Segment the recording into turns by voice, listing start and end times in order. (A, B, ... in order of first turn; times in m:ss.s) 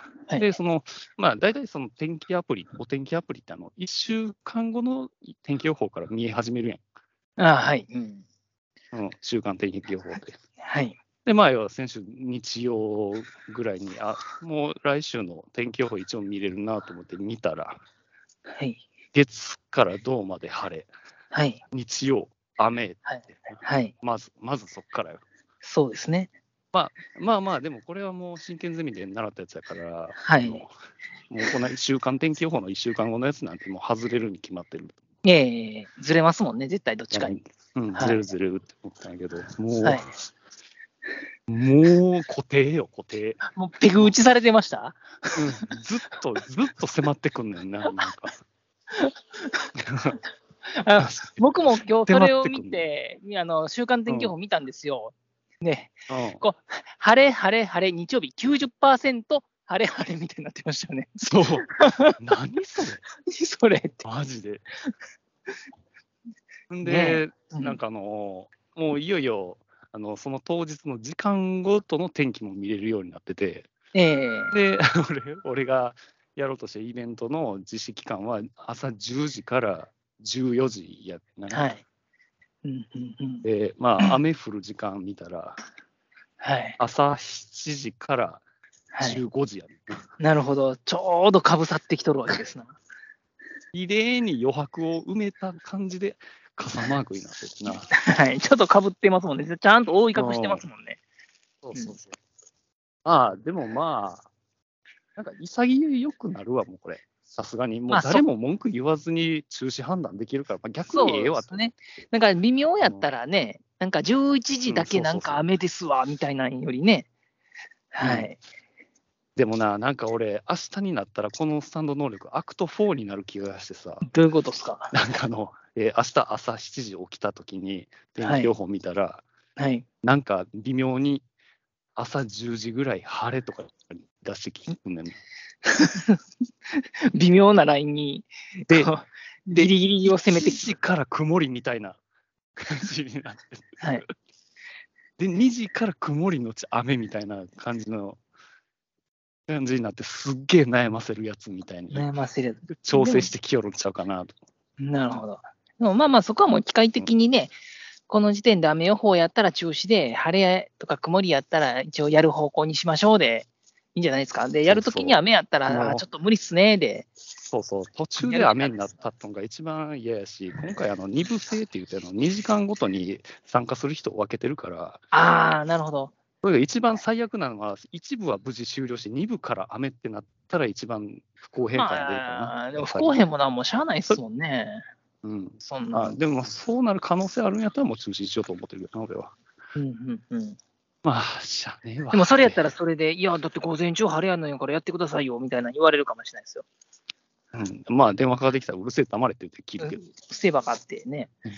0:00.4-0:06.8 A
0:07.4-0:08.2 B
0:08.9-0:10.4 A
0:10.6-0:11.0 B
0:11.2-0:17.8 A
0:18.6-0:18.8 B
0:19.1-0:20.9 A
0:21.3-0:21.6 B
0:21.7-0:25.2 A
0:23.1-0:23.9 B
0:25.6-0:26.3 B
0:26.7-0:30.7 A
0:30.2-0:30.6 B
0:31.3-0:35.0 A
0:35.2-0:37.4 B
0:37.1-0:40.1 A
0:41.5-0:43.4 A
0:43.4-0:45.4 B
0:45.4-0:48.4 A
0:48.9-0:49.7 B
0:49.8-0:50.2 A
0:50.7-1:02.2 B
0:51.0-0:51.4 A
0:52.1-0:52.8 A
0:54.1-0:54.3 A
0:56.1-0:56.4 A
1:01.2-1:01.7 A
1:02.2-1:03.0 A
1:03.3-1:04.0 B
1:04.0-1:04.6 A
1:06.7-1:13.7 A
1:06.8-1:07.8 B
1:13.9-1:14.5 B
1:14.5-1:21.7 A
1:21.5-1:21.8 B
1:22.6-1:23.5 B
1:23.4-1:25.6 A
1:26.4-1:26.8 B
1:26.8-1:28.4 A
1:28.9-1:29.2 B
1:29.0-1:30.0 A
1:30.2-1:32.8 B
1:33.7-1:37.9 A
1:37.9-1:41.0 B
1:40.2-1:40.6 A
1:41.6-1:42.2 A
1:43.0-1:44.3 A
1:45.2-1:51.6 A
1:47.9-1:48.2 B
1:50.9-1:57.1 B
1:52.8-1:53.1 A
1:54.7-1:55.4 A
1:57.9-1:58.4 B
1:58.0-1:58.3 A
1:59.4-2:04.1 A
2:04.0-2:04.9 B
2:04.9-2:09.2 A
2:08.2-2:08.5 B
2:09.6-2:09.8 B
2:10.0-2:11.2 A
2:12.0-2:15.2 A
2:15.6-2:16.2 B
2:16.7-2:20.6 B
2:18.7-2:18.9 A
2:20.3-2:22.0 A
2:22.6-2:24.1 A
2:25.2-2:28.2 A
2:29.5-2:32.1 A
2:31.9-2:33.3 B
2:32.7-2:34.4 A
2:34.8-2:37.6 B
2:38.1-2:47.1 B
2:44.7-2:46.0 A
2:47.5-2:55.0 A
2:48.2-2:48.9 B
2:55.1-2:56.1 B
2:56.4-3:03.2 A
3:01.8-3:04.8 B
3:05.2-3:09.3 A
3:05.6-3:06.2 B
3:09.8-3:10.6 B
3:11.0-3:12.6 A
3:12.1-3:16.6 B
3:17.5-3:20.0 A
3:19.8-3:21.3 B